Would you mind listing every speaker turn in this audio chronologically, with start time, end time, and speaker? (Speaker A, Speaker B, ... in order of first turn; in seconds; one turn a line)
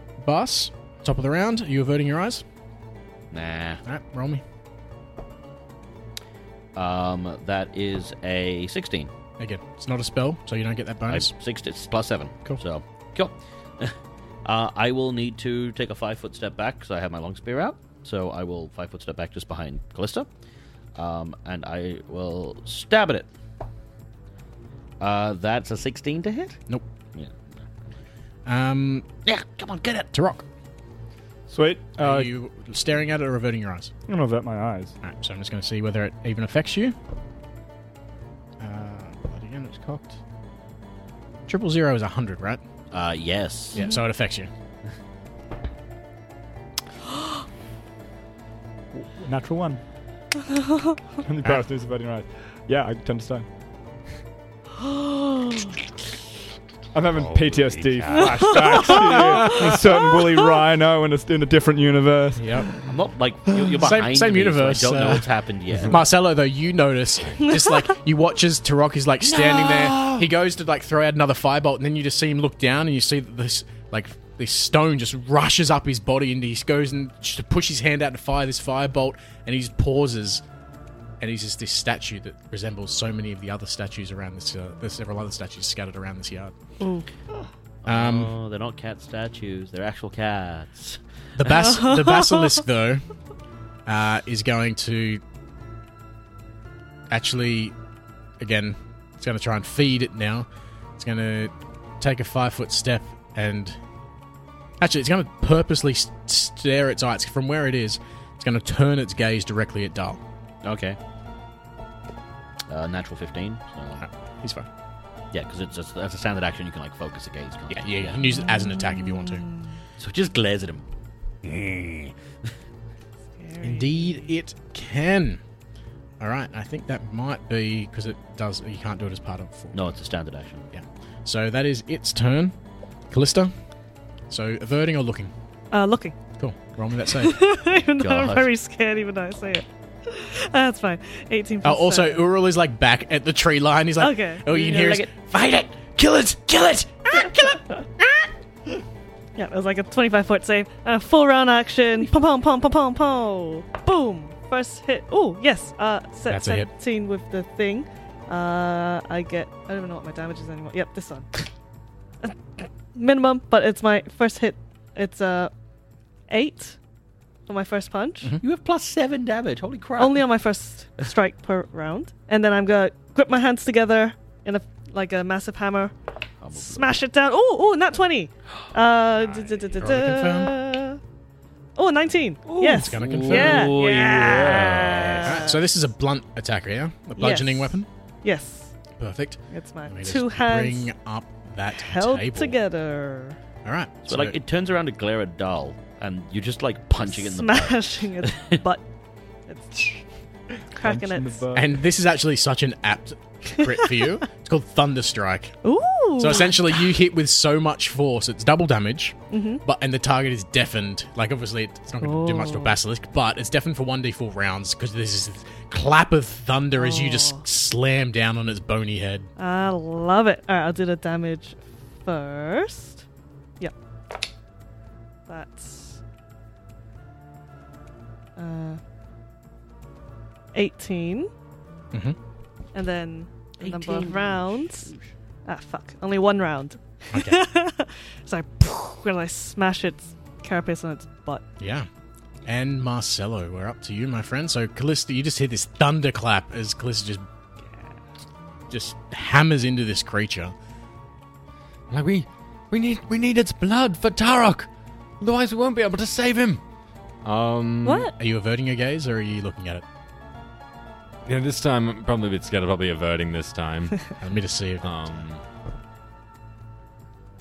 Speaker A: 0.2-2.4
Speaker B: 3.3-3.8
Speaker A: 3.9-4.4
Speaker B: 6.8-9.1
Speaker A: 9.4-11.3
Speaker B: 11.1-20.3
Speaker B: 20.9-23.3
Speaker B: 25.0-26.6
Speaker B: 27.1-27.7
Speaker A: 28.5-29.1
Speaker B: 29.2-30.1
Speaker A: 30.1-30.4
Speaker C: 31.5-32.3
Speaker A: 32.0-33.9
Speaker C: 34.1-35.0
Speaker A: 35.0-37.0
Speaker A: 38.6-40.2
Speaker A: 41.5-42.6
Speaker B: 42.9-43.8
Speaker A: 43.7-44.5
Speaker D: 43.8-44.0
Speaker C: 49.0-49.8
Speaker D: 50.5-51.0
Speaker C: 51.2-53.5
Speaker D: 54.8-55.7
Speaker C: 56.9-62.5
Speaker E: 57.1-58.9
Speaker D: 58.2-60.4
Speaker A: 58.9-59.6
Speaker A: 62.4-62.7
Speaker B: 62.8-66.0
Speaker A: 63.7-65.3
Speaker A: 65.8-80.4
Speaker E: 69.3-70.3
Speaker A: 81.2-86.5
Speaker D: 86.8-87.1
Speaker B: 87.8-91.0
Speaker A: 87.9-88.3
Speaker A: 91.4-93.0
Speaker D: 91.6-92.6
Speaker A: 93.9-95.2
Speaker A: 97.1-97.8
Speaker A: 98.4-103.8
Speaker A: 104.8-110.2
Speaker B: 110.6-111.0
Speaker B: 112.7-114.0
Speaker A: 114.0-114.7
Speaker B: 115.3-118.4
Speaker A: 117.7-119.5
Speaker D: 118.3-119.8
Speaker B: 120.0-120.8
Speaker B: 121.4-122.1
Speaker D: 123.4-124.3
Speaker A: 123.6-125.4
Speaker A: 126.2-129.8
Speaker B: 129.7-130.7
Speaker A: 130.7-132.6
Speaker A: 133.1-133.5
Speaker A: 134.3-135.3
Speaker D: 135.7-136.2
Speaker A: 136.4-137.4
Speaker D: 137.2-142.3
Speaker B: 138.0-138.5
Speaker A: 141.6-148.3
Speaker D: 144.0-144.4
Speaker B: 144.5-145.1
Speaker D: 149.4-161.5
Speaker A: 156.3-156.7
Speaker D: 162.2-165.5
Speaker D: 166.3-166.8
Speaker D: 167.5-168.3
Speaker B: 168.4-170.2
Speaker D: 170.0-175.9
Speaker B: 176.4-176.9
Speaker D: 176.5-181.0
Speaker B: 179.2-179.8
Speaker A: 179.8-180.6
Speaker D: 181.8-185.6
Speaker B: 182.5-185.4
Speaker A: 182.6-183.7
Speaker A: 185.2-187.9
Speaker D: 187.2-188.7
Speaker A: 189.0-192.6
Speaker D: 189.5-190.9
Speaker D: 191.8-193.4
Speaker A: 193.7-194.4
Speaker B: 194.1-198.6
Speaker D: 197.0-198.8
Speaker D: 199.5-200.0
Speaker D: 200.8-201.4
Speaker C: 200.8-201.7
Speaker A: 201.5-205.6
Speaker D: 205.6-206.6
Speaker A: 206.2-219.3
Speaker D: 209.3-209.6
Speaker D: 212.0-212.8
Speaker D: 216.8-217.4
Speaker D: 219.4-223.1
Speaker D: 225.3-226.0
Speaker D: 228.4-228.8
Speaker D: 230.5-231.3
Speaker D: 232.7-234.9
Speaker B: 233.6-235.1
Speaker D: 235.5-241.4
Speaker A: 237.1-237.4
Speaker A: 241.6-241.9
Speaker A: 242.4-247.2
Speaker A: 248.7-250.6
Speaker E: 251.9-254.7
Speaker E: 255.2-256.6
Speaker E: 257.2-258.1
Speaker D: 257.8-258.1
Speaker A: 258.2-259.8
Speaker E: 261.2-264.1
Speaker A: 264.2-264.9
Speaker E: 264.8-265.4